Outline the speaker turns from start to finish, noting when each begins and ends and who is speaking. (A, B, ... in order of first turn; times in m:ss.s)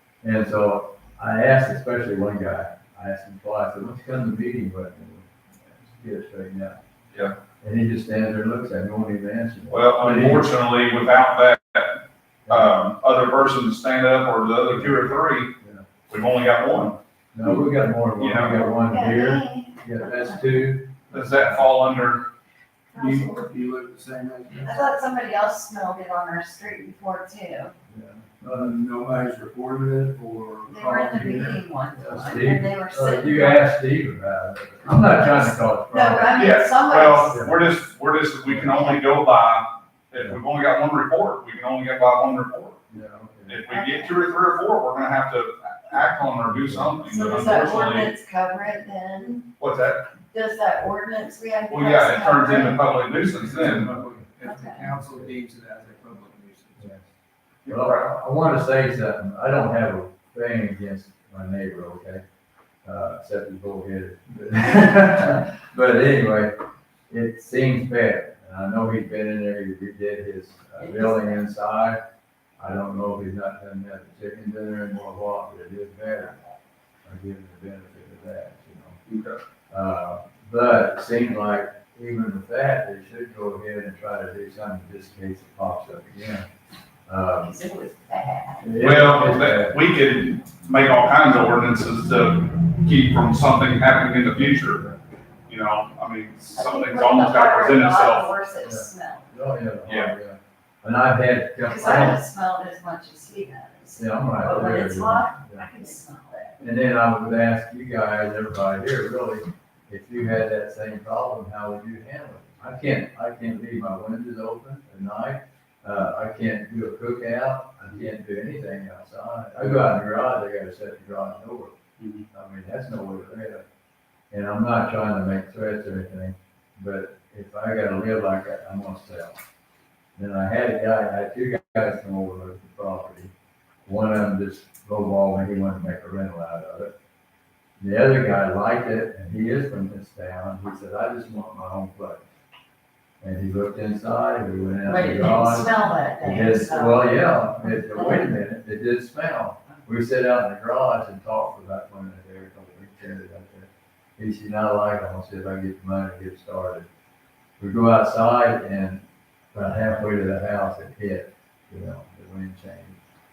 0:00.2-0:06.8 A
0:07.6-0:10.5 A
0:09.7-0:15.5 B
0:12.5-0:12.7 A
0:14.7-0:15.8 A
0:16.1-0:17.0 B
0:17.3-0:21.7 A
0:18.2-0:18.7 B
0:18.9-0:20.4 C
0:21.1-0:22.2 B
0:22.9-0:24.9 D
0:22.9-0:23.3 C
0:24.6-0:27.7 C
0:27.9-0:28.7 A
0:28.5-0:32.0 D
0:30.7-0:33.7 C
0:32.0-0:36.4 A
0:34.9-0:35.4 C
0:35.9-0:37.4 C
0:36.3-0:42.8 B
0:37.3-0:37.6 A
0:38.4-0:38.8 A
0:42.9-0:43.6 A
0:43.5-0:48.1 B
0:43.7-0:44.1 C
0:46.5-0:47.5 A
0:47.1-0:49.4 C
0:49.6-0:50.0 B
0:50.3-0:52.8 C
0:51.7-0:53.9 B
0:53.4-0:56.9 D
0:54.4-0:54.9 C
0:55.0-0:55.3 A
0:56.8-0:57.0 A
0:57.6-0:58.1 B
0:57.7-1:02.2 A
1:02.8-1:06.5 A
1:07.1-1:12.0 A
1:10.8-1:11.4 C
1:12.6-1:16.3 A
1:17.0-1:19.0 A
1:19.0-1:19.4 B
1:19.7-1:26.4 A
1:27.1-1:27.6 A
1:27.4-1:28.7 C
1:28.6-1:29.8 A
1:28.8-1:34.8 B
1:34.5-1:35.0 A
1:35.5-1:38.3 B
1:36.5-1:39.3 C
1:38.6-1:42.2 A
1:39.8-1:40.1 B
1:41.6-1:46.6 C
1:41.8-1:42.1 B
1:43.9-1:45.7 A
1:46.6-2:01.8 A
2:02.0-2:02.2 B
2:02.3-2:03.6 A
2:04.3-2:09.4 A
2:10.2-2:13.3 A
2:13.8-2:16.9 A
2:17.8-2:22.2 A
2:23.2-2:36.9 A
2:24.8-2:27.1 C
2:27.9-2:28.2 C
2:37.6-2:43.0 A